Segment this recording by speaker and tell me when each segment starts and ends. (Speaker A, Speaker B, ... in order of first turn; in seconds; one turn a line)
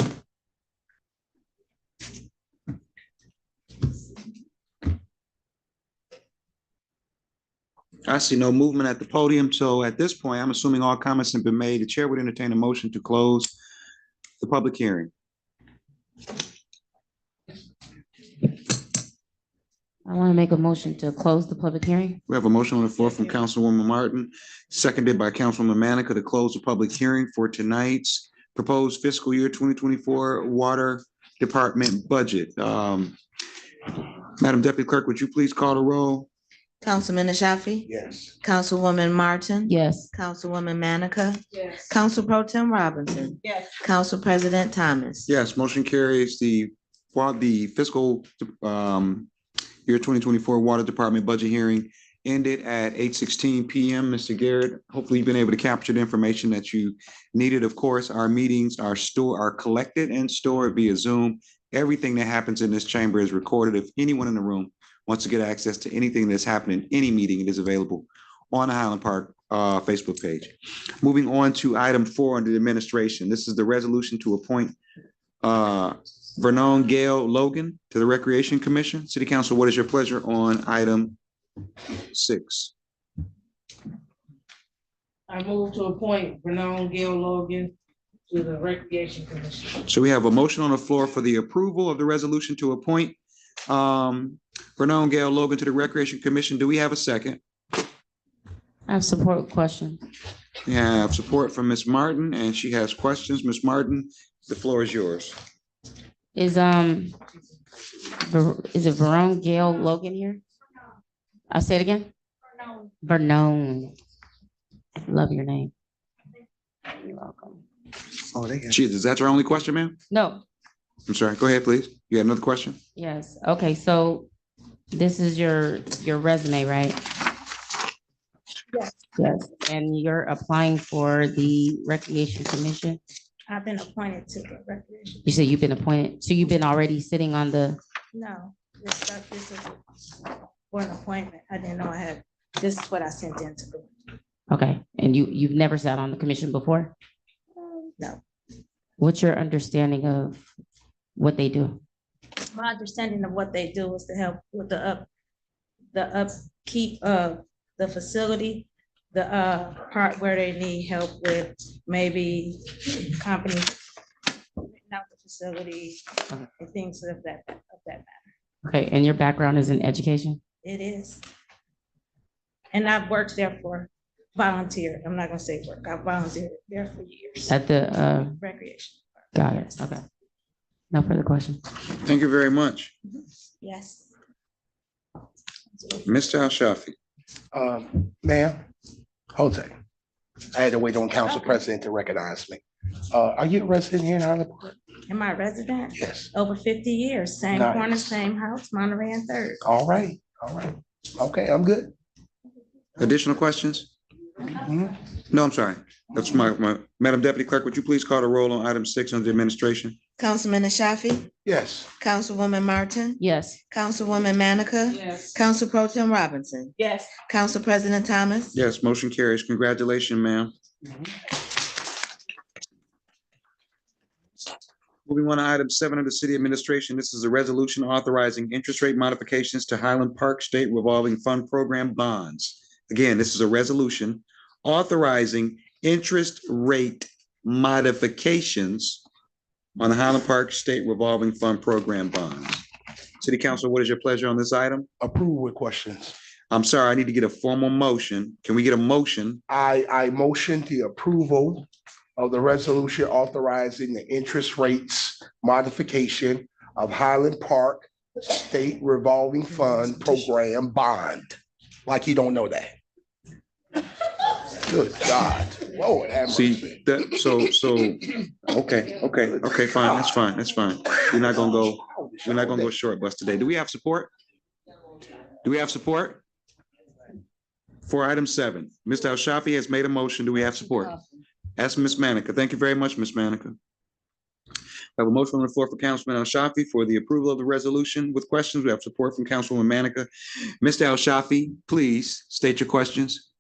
Speaker A: 8.1-13.5
Speaker A: 14.4-15.1
Speaker B: 20.1-22.2
Speaker A: 22.3-33.1
Speaker A: 34.4-36.3
Speaker C: 36.8-37.9
Speaker D: 37.9-38.3
Speaker C: 38.4-45.3
Speaker B: 39.6-40.1
Speaker A: 45.3-49.3
Speaker A: 49.9-74.8
Speaker A: 75.4-81.2
Speaker A: 82.1-82.7
Speaker E: 85.3-87.7
Speaker E: 88.3-89.8
Speaker A: 89.8-97.4
Speaker B: 98.9-100.0
Speaker A: 100.7-105.3
Speaker B: 106.3-107.1
Speaker B: 108.2-110.4
Speaker B: 111.5-112.1
Speaker B: 113.0-113.9
Speaker B: 115.0-115.7
Speaker B: 116.9-117.6
Speaker A: 118.3-120.0
Speaker B: 120.1-120.4
Speaker A: 121.1-122.8
Speaker B: 123.0-124.3
Speaker B: 124.9-127.0
Speaker B: 129.2-133.0
Speaker F: 133.5-135.2
Speaker B: 135.2-137.8
Speaker F: 138.1-139.8
Speaker F: 140.7-143.9
Speaker B: 144.5-146.9
Speaker B: 149.0-150.4
Speaker B: 151.2-151.8
Speaker F: 152.5-155.1
Speaker F: 155.9-163.8
Speaker F: 164.6-166.0
Speaker F: 166.6-168.3
Speaker B: 168.6-170.4
Speaker F: 170.6-171.2
Speaker F: 172.7-177.6
Speaker B: 177.5-178.3
Speaker F: 178.2-179.0
Speaker B: 179.3-180.0
Speaker B: 180.9-181.6
Speaker A: 182.0-182.9
Speaker F: 183.1-184.1
Speaker F: 185.7-186.0
Speaker A: 186.0-186.9
Speaker D: 187.5-188.6
Speaker D: 189.3-189.7
Speaker D: 190.5-194.7
Speaker F: 195.1-199.6
Speaker D: 195.9-196.3
Speaker D: 197.5-198.0
Speaker D: 199.6-201.9
Speaker A: 203.0-203.9
Speaker D: 204.5-205.0
Speaker A: 205.3-210.0
Speaker C: 210.2-211.3
Speaker D: 211.4-211.9
Speaker C: 212.0-213.2
Speaker B: 213.2-213.6
Speaker C: 213.7-216.7
Speaker E: 216.8-217.1
Speaker C: 217.3-218.6
Speaker A: 218.5-220.5
Speaker A: 225.1-239.0
Speaker A: 239.8-242.6
Speaker A: 243.2-244.9
Speaker D: 245.0-246.1
Speaker A: 246.5-249.4
Speaker D: 249.5-262.8
Speaker D: 264.6-266.8
Speaker A: 266.3-274.1
Speaker D: 269.8-270.1
Speaker D: 271.0-272.7
Speaker A: 275.4-276.2
Speaker A: 277.9-281.0
Speaker A: 281.6-283.6
Speaker A: 285.0-290.1
Speaker A: 290.6-293.2